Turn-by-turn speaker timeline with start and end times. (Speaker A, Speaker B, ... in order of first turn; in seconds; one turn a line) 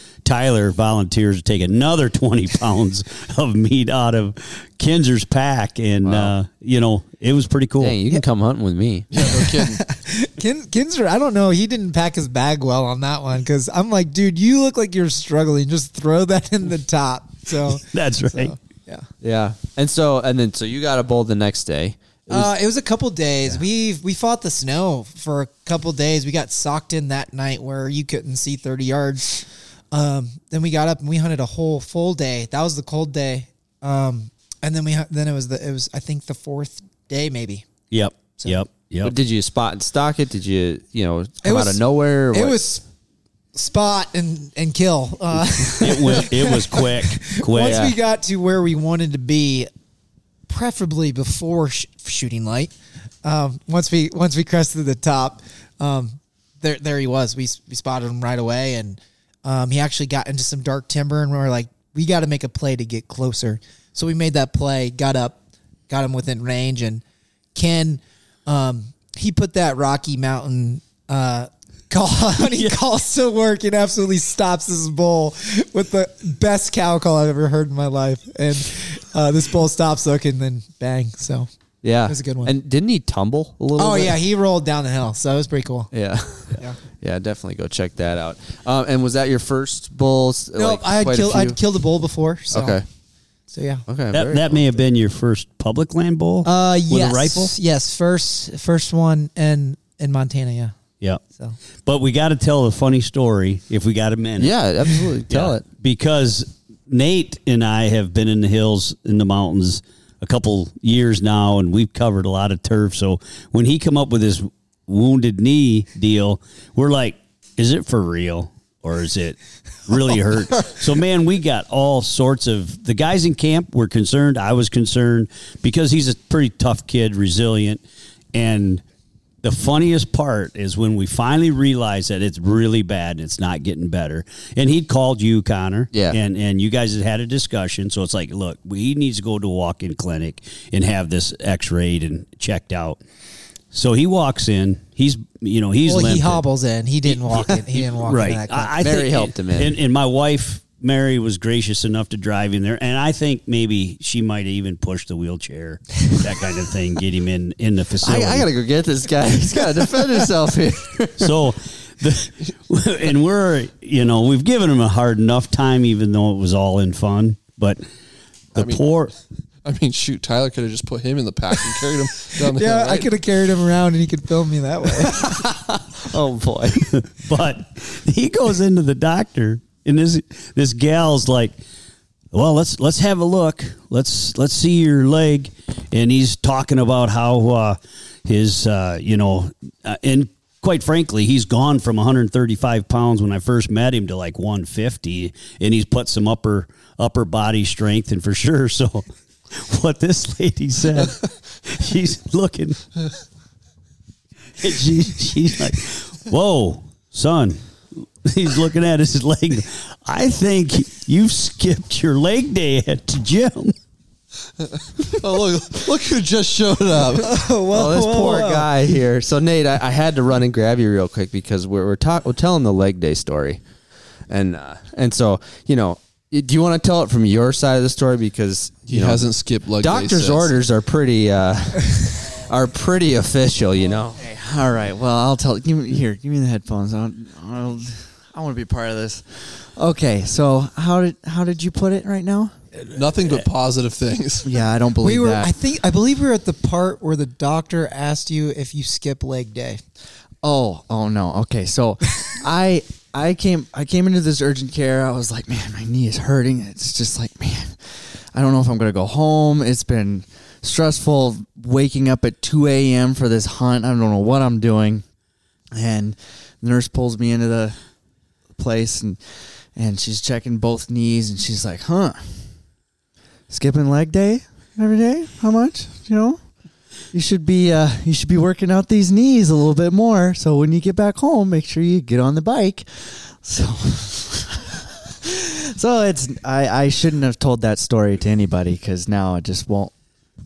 Speaker A: 0.2-8.0
Speaker B: 6.0-6.3
Speaker B: 7.8-9.1
Speaker C: 9.1-9.8
Speaker D: 9.2-19.1
Speaker A: 17.6-18.5
Speaker B: 19.2-22.5
Speaker D: 22.3-37.7
Speaker A: 37.9-39.1
Speaker B: 39.0-42.6
Speaker D: 41.4-42.8
Speaker D: 43.5-49.7
Speaker A: 45.8-47.9
Speaker B: 47.6-47.9
Speaker D: 50.5-52.7
Speaker D: 53.2-67.0
Speaker D: 67.5-81.5
Speaker A: 72.4-72.8
Speaker B: 81.8-84.2
Speaker D: 82.1-82.5
Speaker D: 83.8-85.9
Speaker B: 85.9-91.6
Speaker D: 90.5-92.8
Speaker B: 92.5-92.8
Speaker D: 93.5-93.8
Speaker B: 93.9-94.8
Speaker A: 94.1-97.5
Speaker D: 96.4-100.7
Speaker A: 101.8-127.8
Speaker B: 104.4-105.6
Speaker A: 128.3-128.8
Speaker A: 129.4-143.0
Speaker B: 135.9-136.2
Speaker A: 143.7-146.4
Speaker D: 145.8-148.9
Speaker A: 147.0-158.5
Speaker B: 148.8-149.7
Speaker B: 158.0-161.3
Speaker A: 161.2-167.8
Speaker A: 168.5-169.1
Speaker C: 168.6-168.8
Speaker C: 169.6-173.1
Speaker D: 172.3-175.4
Speaker B: 175.1-176.8
Speaker A: 176.8-181.5
Speaker A: 182.3-202.9
Speaker A: 204.6-213.7
Speaker C: 215.0-217.3
Speaker D: 217.2-218.7
Speaker B: 217.7-223.6
Speaker B: 224.3-229.3
Speaker C: 228.9-230.5
Speaker B: 229.8-234.2
Speaker E: 234.1-243.4
Speaker C: 242.9-244.6
Speaker E: 244.4-245.5
Speaker D: 245.0-249.8
Speaker E: 250.4-265.0
Speaker E: 265.7-267.8
Speaker E: 268.5-272.6
Speaker E: 273.5-284.7
Speaker E: 285.2-289.9